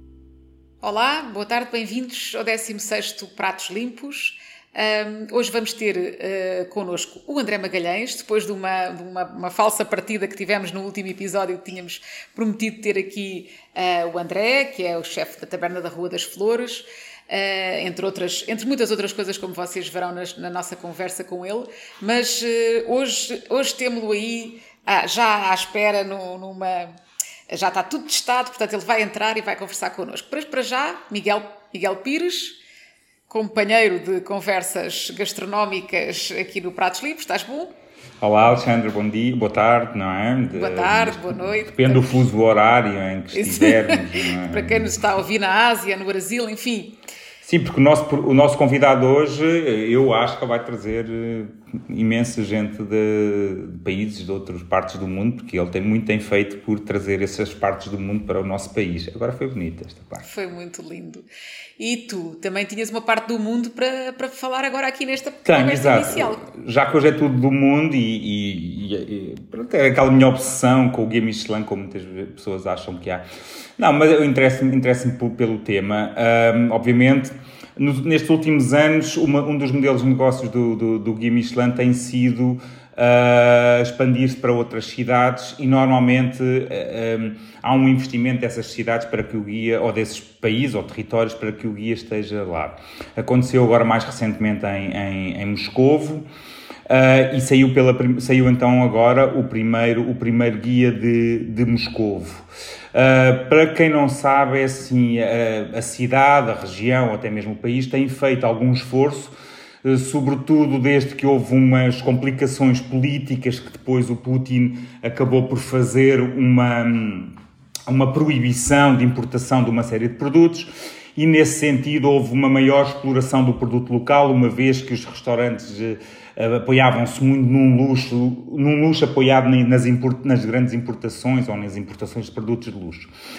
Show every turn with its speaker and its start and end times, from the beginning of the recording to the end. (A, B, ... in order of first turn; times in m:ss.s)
0:00.8-0:27.0 A
0:27.5-0:32.6 A
0:33.3-0:37.7 A
0:38.2-0:44.9 B
0:40.6-0:42.2 A
0:43.3-0:47.0 A
0:47.4-1:00.2 B
1:00.2-1:01.2 A
1:01.8-1:06.4 A
1:05.4-1:13.2 B
1:13.8-1:36.3 B
1:36.9-1:49.3 B
1:49.8-2:13.1 B